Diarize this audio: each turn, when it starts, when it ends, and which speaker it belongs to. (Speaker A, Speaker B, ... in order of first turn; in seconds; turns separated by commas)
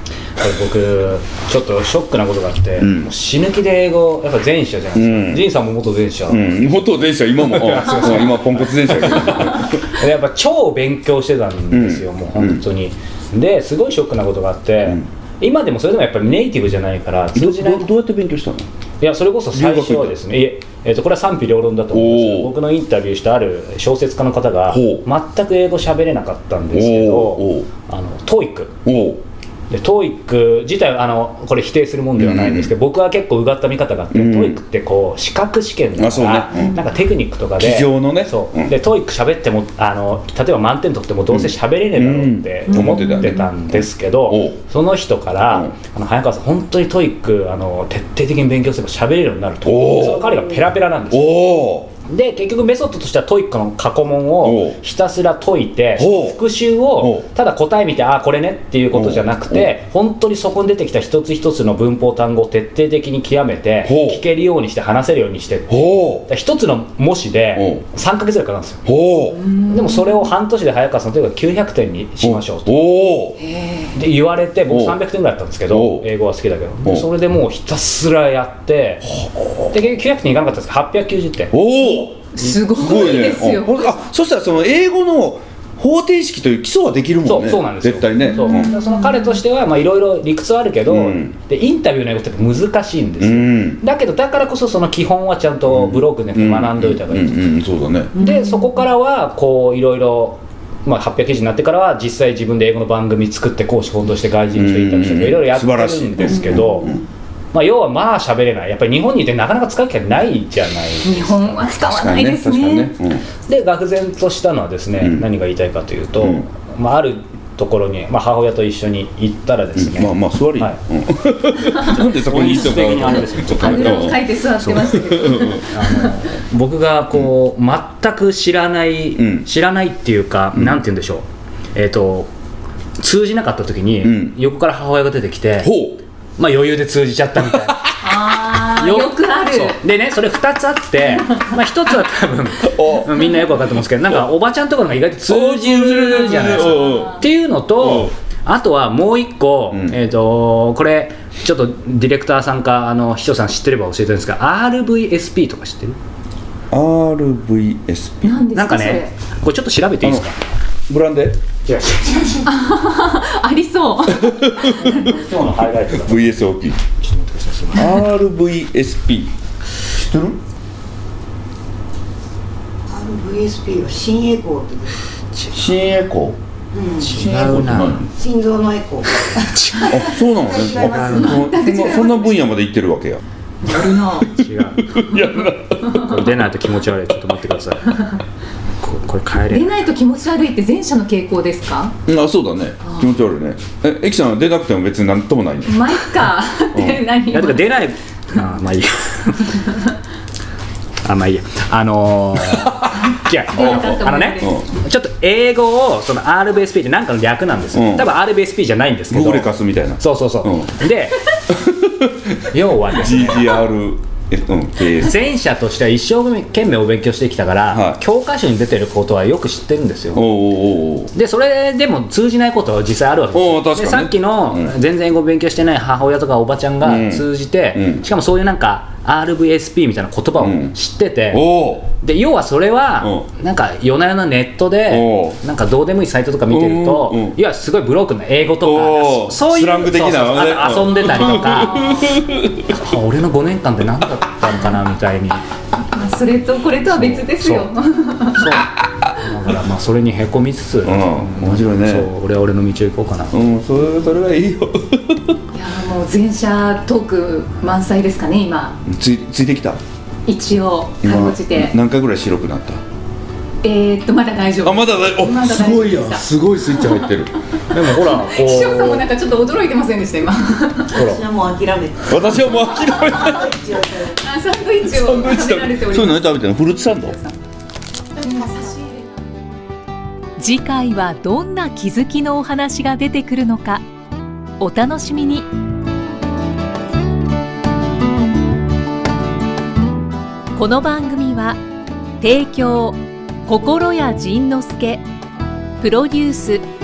Speaker A: 0.4-17.9, Speaker B: 2.8-3.1, Speaker B: 5.0-5.5, Speaker B: 6.3-9.8, Speaker B: 11.7-12.6, Speaker B: 17.4-18.7, Speaker A: 19.0-28.8, Speaker B: 19.5-20.2, Speaker B: 21.9-22.5, Speaker B: 24.7-25.0, Speaker B: 26.7-27.7, Speaker B: 28.9-29.2, Speaker A: 29.7-51.5, Speaker B: 32.2-32.7, Speaker B: 34.1-34.6, Speaker B: 36.0-36.8, Speaker B: 37.6-38.8, Speaker B: 41.3-44.6, Speaker C: 42.7-43.5, Speaker B: 49.6-50.4, Speaker B: 51.1-51.9, Speaker A: 52.0-68.8, Speaker B: 54.4-54.8, Speaker B: 56.0-56.4, Speaker B: 57.0-57.3, Speaker B: 58.9-59.7, Speaker B: 63.8-64.2, Speaker B: 65.7-66.3, Speaker B: 67.5-67.8, Speaker B: 68.8-69.4, Speaker C: 69.4-70.3, Speaker A: 69.7-72.7, Speaker B: 72.2-73.4, Speaker C: 73.4-74.0, Speaker A: 73.9-79.1, Speaker B: 74.7-75.0, Speaker B: 75.7-76.1, Speaker B: 79.0-79.7, Speaker A: 79.7-81.5, Speaker B: 81.5-88.7, Speaker C: 82.3-84.0, Speaker A: 87.2-97.4, Speaker C: 88.3-89.3, Speaker B: 90.9-91.3, Speaker B: 93.2-93.8, Speaker B: 95.7-98.1, Speaker A: 98.2-106.9, Speaker C: 98.2-98.8, Speaker B: 104.5-107.0, Speaker A: 107.5-111.6, Speaker C: 111.0-112.9, Speaker B: 111.7-113.2, Speaker A: 113.5-120.8, Speaker B: 115.0-115.3, Speaker B: 116.2-116.5, Speaker B: 119.8-125.6, Speaker A: 121.8-132.3, Speaker C: 123.5-126.1, Speaker B: 129.2-129.5, Speaker B: 130.5-130.8, Speaker A: 133.0-135.8, Speaker B: 134.0-134.4, Speaker B: 135.6-136.0, Speaker A: 136.4-137.8, Speaker B: 137.4-137.7, Speaker C: 138.0-139.8, Speaker A: 138.7-156.0, Speaker B: 142.7-143.2, Speaker B: 145.3-147.2, Speaker C: 146.1-147.2, Speaker B: 147.8-148.1, Speaker B: 149.7-150.0, Speaker B: 156.7-158.4, Speaker C: 158.2-159.1, Speaker A: 158.5-160.5, Speaker B: 160.9-161.4, Speaker A: 161.7-162.5, Speaker C: 162.4-164.9, Speaker B: 164.1-165.1, Speaker A: 164.6-166.4, Speaker B: 165.9-166.8, Speaker A: 167.0-168.0, Speaker B: 167.7-170.4, Speaker D: 172.9-175.0, Speaker B: 175.5-176.4, Speaker D: 176.7-177.3, Speaker A: 177.0-178.1, Speaker B: 177.0-178.1, Speaker D: 178.2-179.8, Speaker A: 179.4-179.9, Speaker C: 179.7-180.2, Speaker B: 179.9-186.4, Speaker D: 180.3-181.4, Speaker A: 180.8-181.5, Speaker C: 181.0-182.4, Speaker C: 183.6-184.3, Speaker A: 184.3-185.3, Speaker A: 185.8-188.1, Speaker A: 188.8-189.8, Speaker C: 189.5-191.9, Speaker B: 192.1-196.0, Speaker C: 192.8-193.1, Speaker C: 195.6-197.8, Speaker B: 196.7-197.0, Speaker A: 197.3-199.7, Speaker A: 201.0-211.2, Speaker B: 202.6-202.9, Speaker C: 203.5-204.7, Speaker B: 203.6-204.7, Speaker B: 207.7-208.1, Speaker B: 209.1-210.8, Speaker B: 211.5-215.3, Speaker A: 212.5-213.6, Speaker A: 215.0-220.3, Speaker B: 217.7-218.0, Speaker B: 220.1-221.1, Speaker A: 221.1-242.1, Speaker B: 223.3-224.7, Speaker B: 226.8-228.0, Speaker B: 230.4-230.8, Speaker B: 231.3-231.9, Speaker B: 233.0-233.3, Speaker B: 234.9-235.4, Speaker B: 236.5-237.4, Speaker B: 238.6-242.7, Speaker A: 242.6-245.4, Speaker C: 245.9-248.6, Speaker A: 246.9-247.7, Speaker A: 248.3-253.4, Speaker B: 250.8-252.1, Speaker B: 253.3-255.4, Speaker C: 255.5-258.8, Speaker B: 258.8-259.8, Speaker C: 260.3-261.7, Speaker B: 261.0-262.8, Speaker C: 263.6-267.1, Speaker B: 264.6-267.4, Speaker A: 267.7-269.1, Speaker C: 267.8-270.9, Speaker A: 270.9-271.2, Speaker D: 270.9-274.2, Speaker B: 272.1-273.5, Speaker C: 272.9-273.2, Speaker C: 274.2-277.4, Speaker B: 274.9-277.1, Speaker C: 278.2-279.2, Speaker E: 280.4-283.8, Speaker E: 284.6-285.5, Speaker E: 290.6-291.6, Speaker E: 292.2-295.0, Speaker E: 295.8-296.6